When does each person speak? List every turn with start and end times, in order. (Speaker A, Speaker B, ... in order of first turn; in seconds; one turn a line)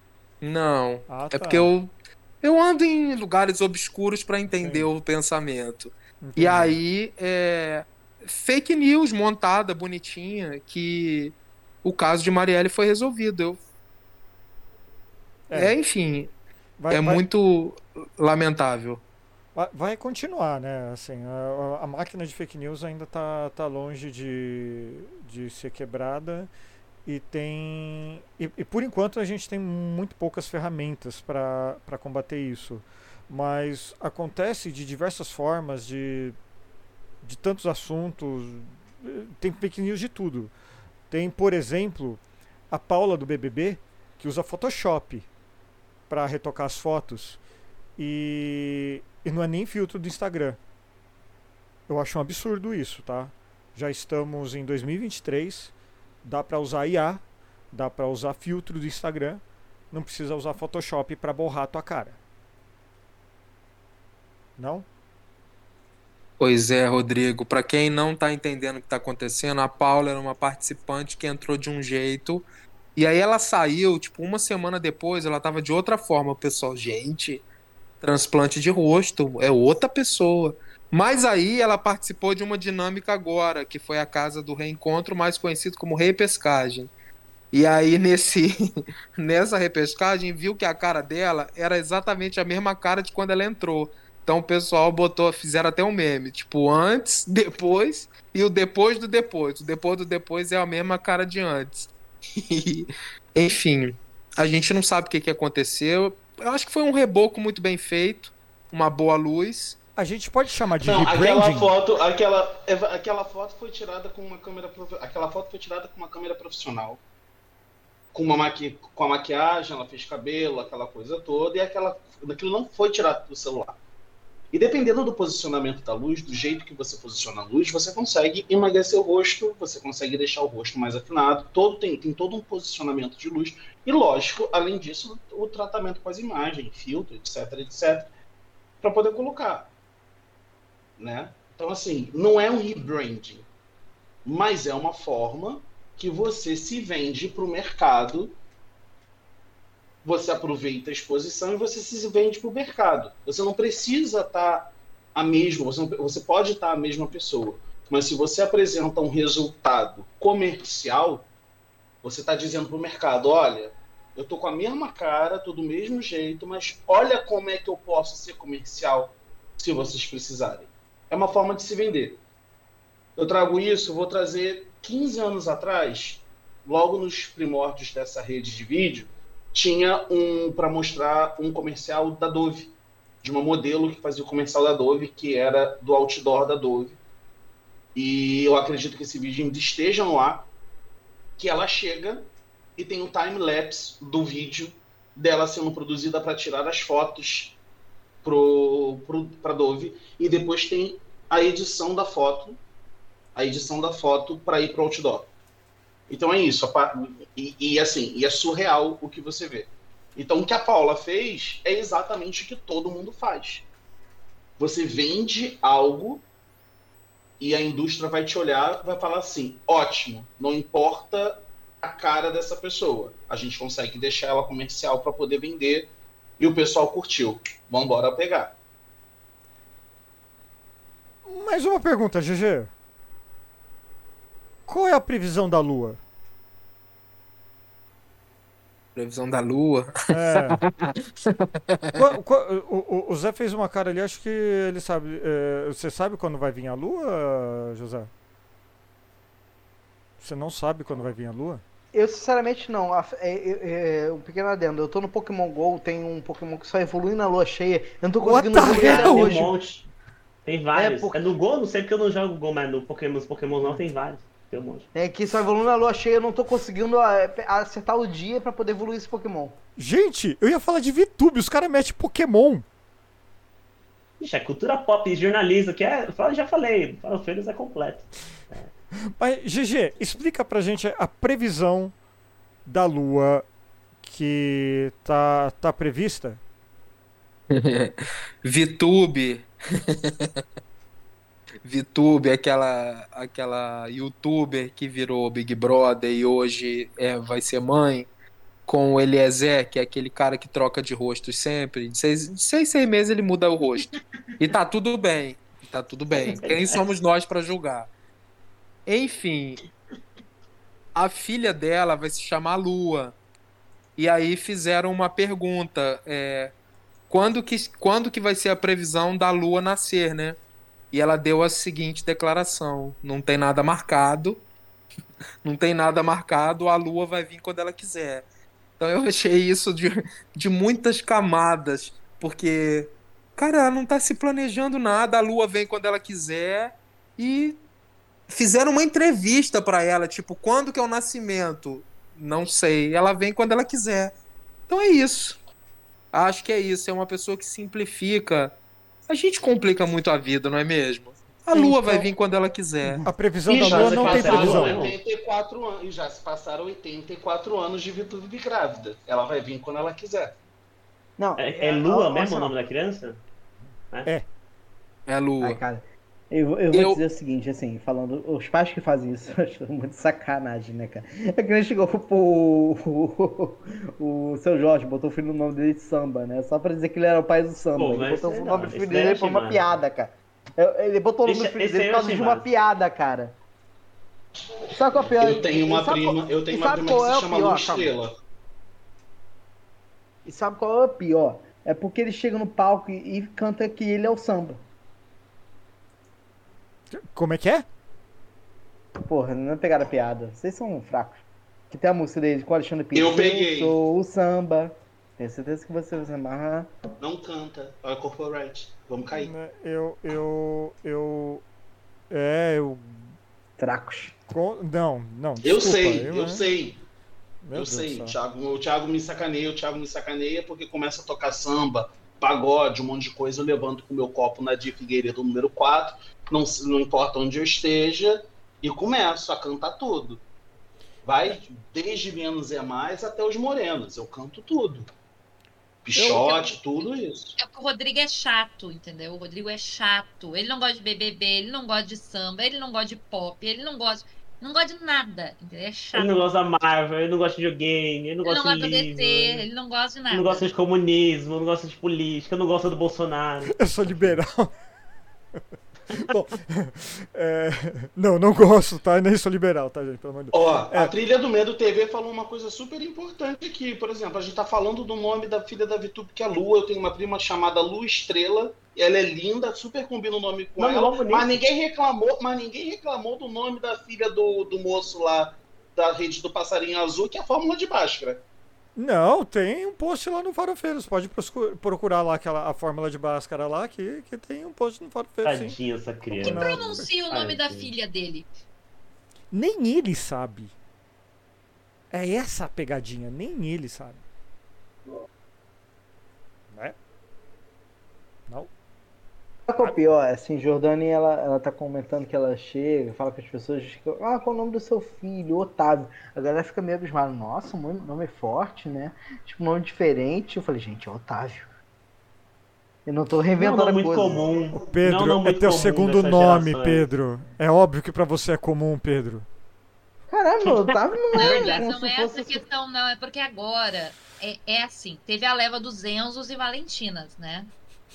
Speaker A: 0.4-13.6
Speaker B: 1.1-1.7
Speaker B: 4.6-4.9
Speaker B: 6.2-6.8
Speaker B: 15.5-15.8
Speaker A: 15.5-16.3
Speaker B: 16.8-17.2
Speaker A: 16.9-19.0
Speaker B: 19.6-26.5
Speaker B: 27.1-36.4
Speaker B: 37.2-40.5
Speaker B: 41.1-45.3
Speaker B: 46.1-47.4
Speaker B: 48.0-50.6
Speaker B: 51.9-55.7
Speaker B: 56.2-62.2
Speaker B: 64.6-64.9
Speaker A: 66.4-77.5
Speaker A: 78.0-86.9
Speaker A: 87.5-88.5
Speaker A: 89.2-109.8
Speaker B: 110.0-111.7
Speaker C: 110.8-117.0
Speaker C: 118.1-123.8
Speaker C: 124.5-138.1
Speaker C: 138.8-139.7
Speaker C: 141.0-143.5
Speaker C: 144.2-148.4
Speaker C: 150.0-161.3
Speaker C: 162.0-172.2
Speaker C: 173.2-187.0
Speaker C: 187.9-190.5
Speaker C: 191.4-197.6
Speaker C: 198.2-202.6
Speaker C: 203.4-205.3
Speaker C: 206.1-213.7
Speaker C: 214.6-216.2
Speaker C: 217.4-228.6
Speaker B: 231.2-232.7
Speaker B: 234.7-236.0
Speaker A: 239.0-242.0
Speaker B: 240.1-240.6
Speaker B: 241.9-248.1
Speaker B: 250.2-251.6
Speaker D: 251.9-259.6
Speaker B: 258.2-259.3
Speaker E: 258.7-259.9
Speaker E: 260.5-264.9
Speaker D: 260.7-261.3
Speaker D: 264.9-269.6
Speaker B: 269.8-272.6
Speaker E: 274.2-278.7
Speaker B: 279.2-281.9
Speaker B: 282.7-283.5
Speaker B: 284.0-286.4
Speaker A: 287.5-290.4
Speaker A: 291.6-298.1
Speaker A: 298.7-307.9
Speaker E: 306.1-306.8
Speaker A: 308.9-309.6
Speaker A: 310.9-313.2
Speaker A: 314.0-316.5
Speaker A: 317.1-320.4
Speaker A: 320.9-324.4
Speaker A: 325.4-328.3
Speaker A: 328.8-337.6
Speaker A: 338.3-344.1
Speaker A: 344.7-345.4
Speaker A: 346.1-348.6
Speaker A: 349.1-353.1
Speaker B: 351.5-352.1
Speaker B: 353.1-354.8
Speaker C: 353.5-360.3
Speaker E: 353.5-355.0
Speaker D: 361.2-362.5
Speaker E: 361.4-363.2
Speaker A: 365.1-365.6
Speaker D: 365.4-383.4
Speaker A: 366.7-367.0
Speaker E: 377.7-379.7
Speaker E: 381.2-382.5
Speaker D: 384.7-387.9
Speaker C: 385.0-388.1
Speaker D: 390.2-394.6
Speaker B: 396.9-397.6
Speaker D: 399.0-406.7
Speaker C: 402.9-403.8
Speaker C: 407.0-409.3
Speaker B: 409.2-411.4
Speaker B: 412.1-413.0
Speaker D: 413.6-414.2
Speaker B: 414.3-416.4
Speaker C: 415.4-416.8
Speaker B: 417.4-418.1
Speaker C: 417.6-430.2
Speaker C: 431.1-434.9
Speaker C: 435.9-437.4
Speaker B: 436.0-436.4
Speaker F: 436.2-436.8
Speaker F: 437.4-446.3
Speaker E: 445.9-449.5
Speaker F: 448.2-450.5
Speaker E: 450.1-453.5
Speaker B: 453.5-454.6
Speaker B: 455.9-460.9
Speaker C: 460.3-478.2
Speaker E: 470.6-471.4
Speaker B: 478.8-485.6
Speaker E: 485.2-487.7
Speaker B: 486.1-486.9
Speaker F: 486.2-488.3
Speaker B: 489.3-490.5
Speaker B: 491.9-494.0
Speaker B: 496.5-496.8
Speaker D: 499.5-511.5
Speaker D: 512.9-514.2
Speaker E: 513.4-516.9
Speaker B: 514.5-519.3
Speaker D: 520.1-522.4
Speaker E: 520.5-521.7
Speaker F: 521.1-527.5